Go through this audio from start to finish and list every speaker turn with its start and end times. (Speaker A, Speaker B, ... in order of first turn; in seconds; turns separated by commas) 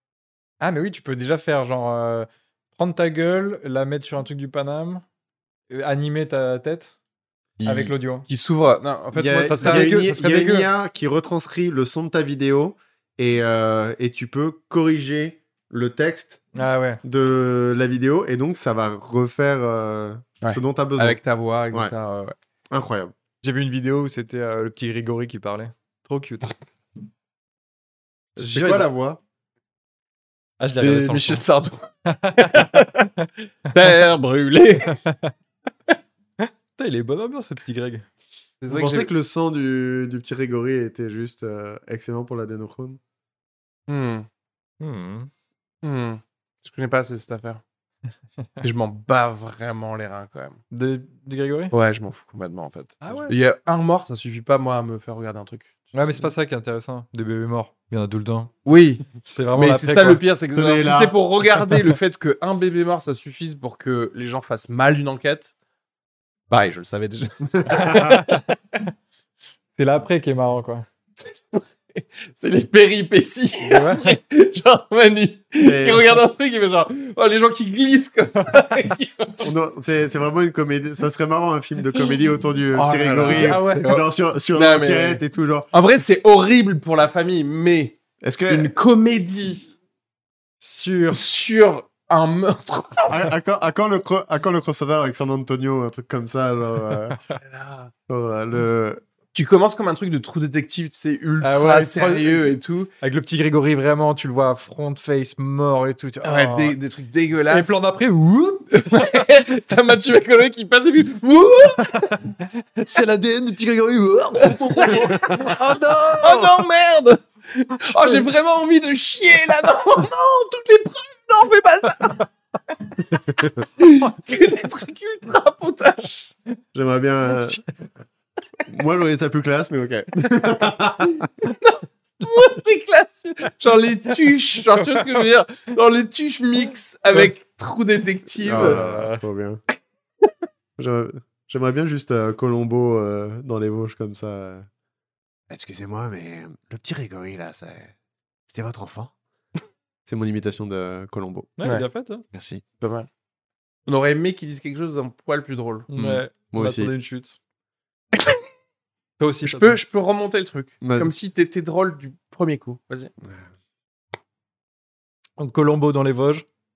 Speaker A: 0.6-5.0, Speaker A: 5.7-6.9, Speaker B: 7.6-10.0, Speaker A: 7.6-8.3, Speaker C: 9.1-16.4, Speaker A: 9.2-10.7, Speaker A: 16.5-17.0, Speaker C: 17.0-21.2, Speaker B: 20.4-22.3, Speaker C: 22.7-23.1, Speaker A: 23.4-26.6, Speaker C: 28.4-29.2, Speaker A: 28.4-28.9, Speaker A: 30.6-31.4, Speaker B: 30.8-33.1, Speaker A: 32.1-32.9, Speaker B: 33.7-35.0, Speaker A: 34.9-35.3, Speaker A: 36.4-38.0, Speaker B: 38.6-39.1, Speaker C: 38.7-43.0, Speaker B: 43.9-44.2, Speaker A: 44.8-45.3, Speaker B: 45.8-47.6, Speaker B: 48.6-50.6, Speaker A: 50.7-51.7, Speaker B: 51.7-56.3, Speaker A: 53.0-53.4, Speaker A: 55.9-58.5, Speaker B: 58.6-65.5, Speaker A: 59.1-60.2, Speaker C: 60.5-61.2, Speaker B: 66.5-68.5, Speaker A: 67.7-68.4, Speaker A: 69.7-70.8, Speaker B: 71.2-79.5, Speaker A: 73.6-74.2, Speaker C: 75.6-76.2, Speaker C: 79.4-85.7, Speaker B: 82.7-89.7, Speaker A: 83.2-83.8, Speaker C: 88.2-88.7, Speaker A: 90.6-91.2, Speaker B: 91.1-93.3, Speaker C: 93.1-97.2, Speaker B: 97.4-97.9, Speaker C: 98.1-99.0, Speaker B: 99.3-102.9, Speaker A: 101.4-102.4, Speaker A: 103.0-106.8, Speaker B: 106.2-107.8, Speaker A: 107.5-109.4, Speaker B: 108.7-112.2, Speaker A: 111.9-116.7, Speaker B: 114.4-122.2, Speaker A: 117.8-118.2, Speaker B: 123.8-126.3, Speaker C: 126.7-127.6, Speaker C: 128.7-131.3, Speaker B: 131.4-138.8, Speaker C: 138.4-139.6, Speaker A: 138.6-139.2, Speaker C: 140.8-144.7, Speaker C: 145.5-147.9, Speaker C: 148.5-149.1, Speaker C: 150.1-151.5, Speaker A: 151.6-152.2, Speaker C: 152.3-152.6, Speaker B: 152.8-153.1, Speaker B: 153.8-155.9, Speaker A: 155.9-157.3, Speaker C: 155.9-156.9, Speaker A: 159.2-159.8, Speaker B: 159.4-163.1, Speaker C: 160.8-161.1, Speaker A: 165.4-166.4